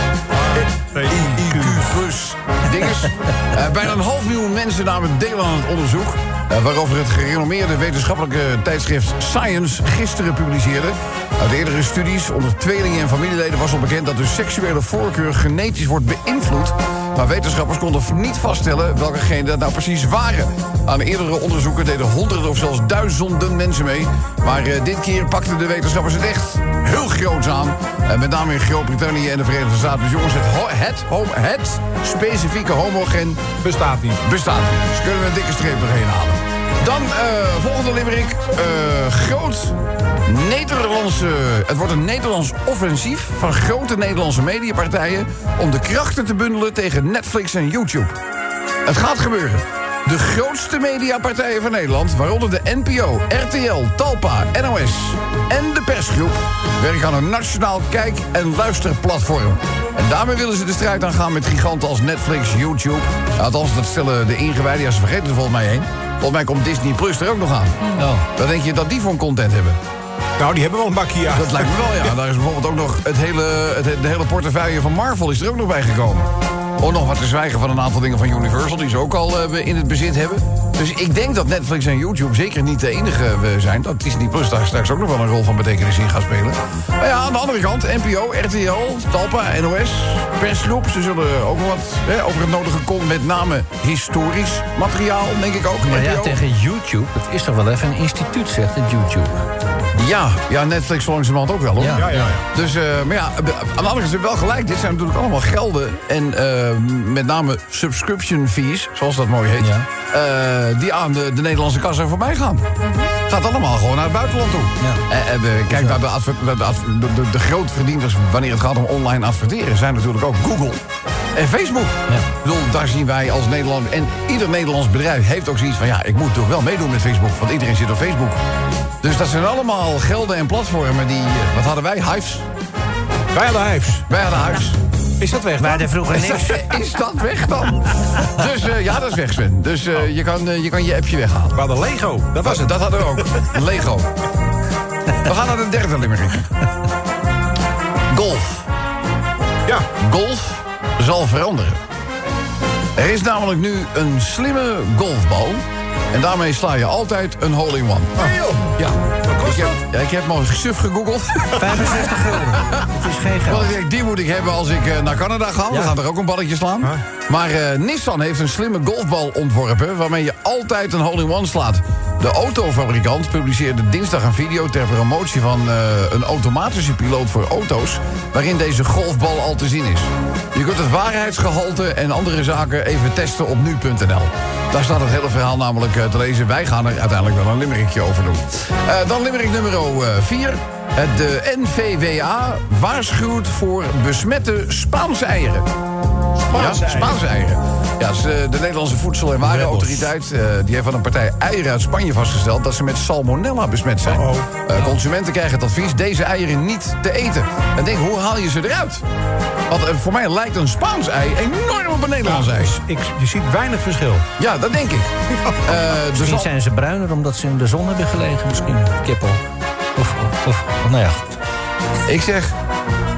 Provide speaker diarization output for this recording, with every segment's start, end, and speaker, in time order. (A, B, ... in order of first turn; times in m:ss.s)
0:00.4-0:01.9 A
0:01.1-0:33.4 B
0:33.6-0:34.2 A
0:34.2-0:39.8 B
0:40.3-0:48.2 B
0:48.9-1:09.8 B
1:08.0-1:08.2 C
1:10.4-1:11.7 A
1:11.3-1:36.4 B
1:35.9-1:39.4 C
1:40.0-1:52.7 B
1:41.8-1:42.3 C
1:42.0-1:42.4 A
1:49.6-1:49.9 C
1:53.3-2:00.8 B
1:55.7-1:56.0 C
2:01.4-2:08.4 B
2:09.0-2:12.4 B
2:13.3-2:14.0 A
2:14.1-2:14.8 B
2:15.2-2:15.9 A
2:15.6-2:16.7 C
2:16.0-2:21.6 B
2:21.5-2:23.5 A
2:22.4-2:24.1 B
2:25.2-2:26.5 B
2:28.1-2:28.6 B
2:30.0-2:31.8 B
2:33.0-2:42.8 B
2:38.2-2:38.7 A
2:39.3-2:39.8 A
2:41.6-2:43.8 C
2:43.5-3:15.7 B
2:45.7-2:46.0 C
3:16.4-3:17.3 A
3:16.5-3:29.0 B
3:19.4-3:20.1 C
3:24.0-3:24.9 A
3:29.7-3:32.8 B
3:32.2-3:34.2 A
3:34.4-3:35.1 B
3:35.6-3:36.5 B
3:36.1-3:39.4 C
3:40.0-3:41.4 C
3:42.1-3:42.5 B